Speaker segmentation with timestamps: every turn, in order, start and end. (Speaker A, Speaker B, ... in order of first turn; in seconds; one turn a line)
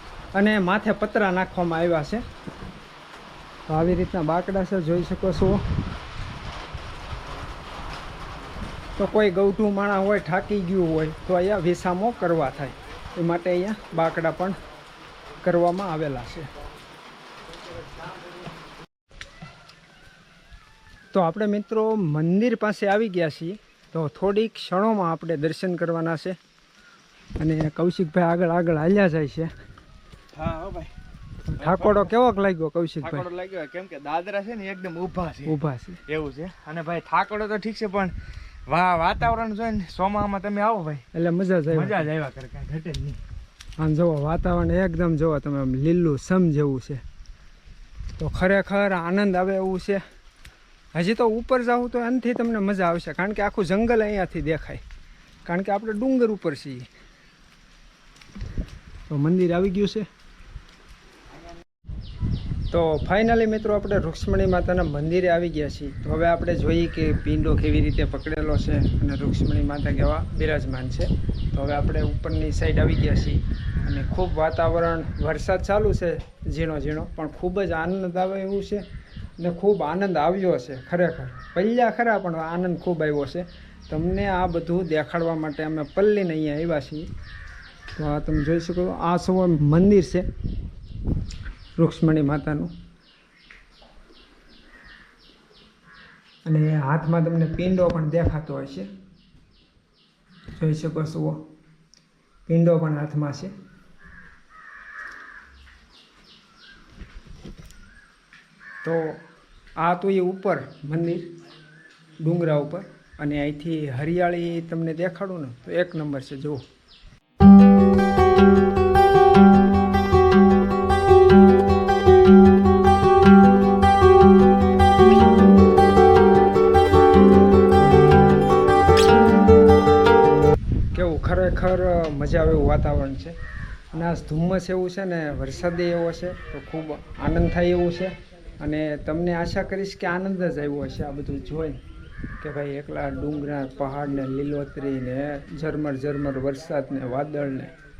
Speaker A: 0.3-2.2
Speaker A: 3.7-5.6
Speaker A: 9.0-14.6
Speaker A: 15.4-16.5
Speaker A: 21.1-26.4
Speaker A: 27.4-29.5
Speaker B: 30.4-30.9
Speaker B: 31.5-32.1
Speaker A: 31.6-33.3
Speaker B: 33.0-35.5
Speaker A: 35.5-36.0
Speaker B: 36.0-38.1
Speaker B: 38.7-41.0
Speaker A: 41.1-42.1
Speaker B: 41.7-43.2
Speaker A: 43.8-47.0
Speaker A: 48.2-50.0
Speaker A: 50.9-54.8
Speaker A: 55.5-56.9
Speaker A: 59.1-60.1
Speaker A: 62.7-78.8
Speaker A: 79.4-87.1
Speaker A: 87.9-90.2
Speaker A: 91.8-92.7
Speaker A: 96.4-98.9
Speaker A: 100.5-101.4
Speaker A: 102.5-103.5
Speaker A: 108.8-109.2
Speaker A: 109.8-111.3
Speaker A: 112.2-116.6
Speaker A: 130.9-133.3
Speaker A: 133.9-141.8
Speaker A: 142.4-147.7